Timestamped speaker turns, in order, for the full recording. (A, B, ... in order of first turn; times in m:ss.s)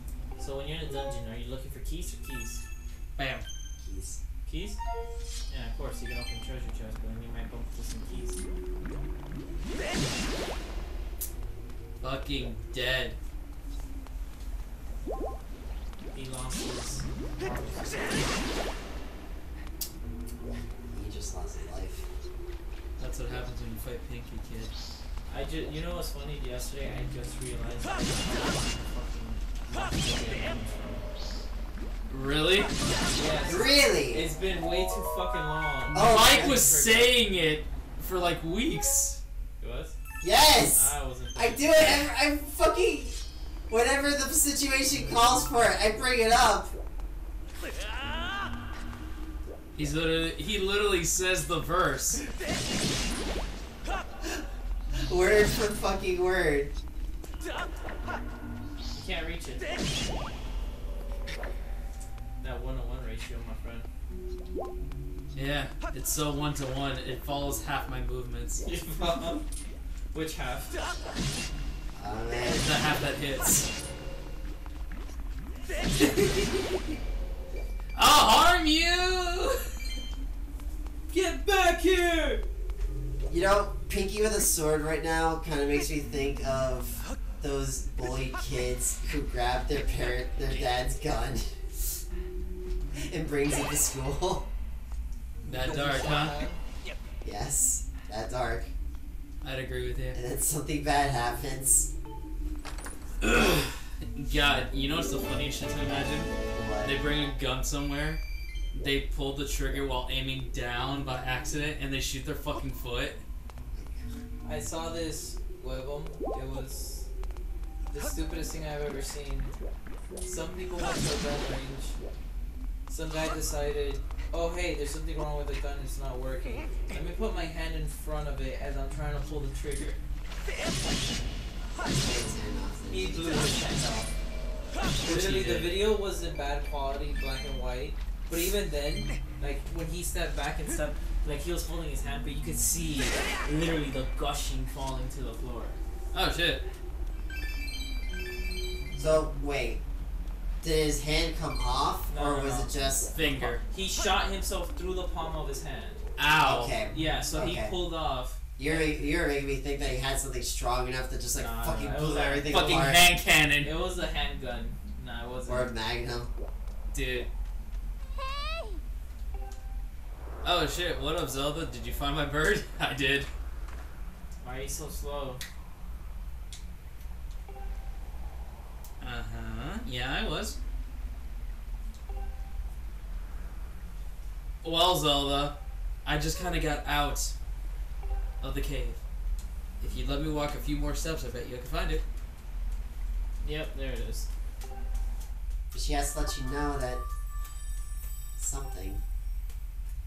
0:00.4-0:02.6 A
0:03.2-0:03.4 B
0:03.8-0:04.2 C
0:04.5-0:04.8 A
0:05.5-0:08.4 A
0:12.0-0:13.2 B
0:16.1-0:18.3 A
0:20.9-0:22.1 C
0:23.0-0:24.8 B
0:25.3-0:31.1 A
0:32.1-0:32.7 B
0:33.2-0:37.2 A
0:33.5-0:34.3 C
0:35.9-0:39.2 B
0:35.9-0:36.6 C
0:39.6-0:39.9 A
0:40.2-0:43.2 C
0:40.6-0:42.0 A
0:43.7-0:46.7 C
0:49.8-0:52.2 B
0:54.9-0:56.7 C
0:58.9-0:59.7 A
1:02.4-1:03.9 A
1:05.4-1:08.6 B
1:08.6-1:09.4 A
1:10.1-1:10.8 A
1:12.0-1:12.7 C
1:12.4-1:13.7 B
1:18.0-1:19.6 B
1:21.1-1:22.4 A
1:23.3-1:31.7 C
1:30.4-1:30.7 B
1:32.9-1:34.5 C
1:35.4-1:36.6 A
1:35.4-1:36.4 B
1:37.2-1:38.7 C
1:39.4-1:40.2 B
1:40.1-1:41.9 C
1:43.2-1:48.2 B
1:46.5-1:47.0 C
1:48.7-1:53.2 B
1:53.7-1:54.1 C
1:54.4-1:57.1 A
1:57.9-1:59.5 A
2:00.2-2:02.0 A
2:02.9-2:10.0 A
2:11.9-2:13.6 C
2:12.9-2:14.1 A
2:15.0-2:25.8 A
2:15.0-2:15.9 B
2:26.1-2:26.6 B
2:29.0-2:29.8 C
2:30.6-2:33.5 C
2:32.1-2:32.7 A
2:33.1-2:33.6 B
2:33.7-2:36.0 A
2:36.2-2:36.8 B
2:36.4-2:37.8 C
2:36.9-2:39.0 A
2:38.6-2:43.1 C
2:41.3-2:42.9 A
2:42.5-2:43.7 B
2:43.6-2:45.7 A
2:45.5-2:46.3 C
2:46.9-2:47.3 B
2:50.4-2:53.3 B
2:54.4-2:55.4 A
2:59.0-3:00.6 B
3:04.6-3:07.4 B
3:08.4-3:09.0 B
3:09.8-3:12.0 B
3:13.4-3:14.3 A
3:15.7-3:17.0 C
3:18.4-3:19.0 C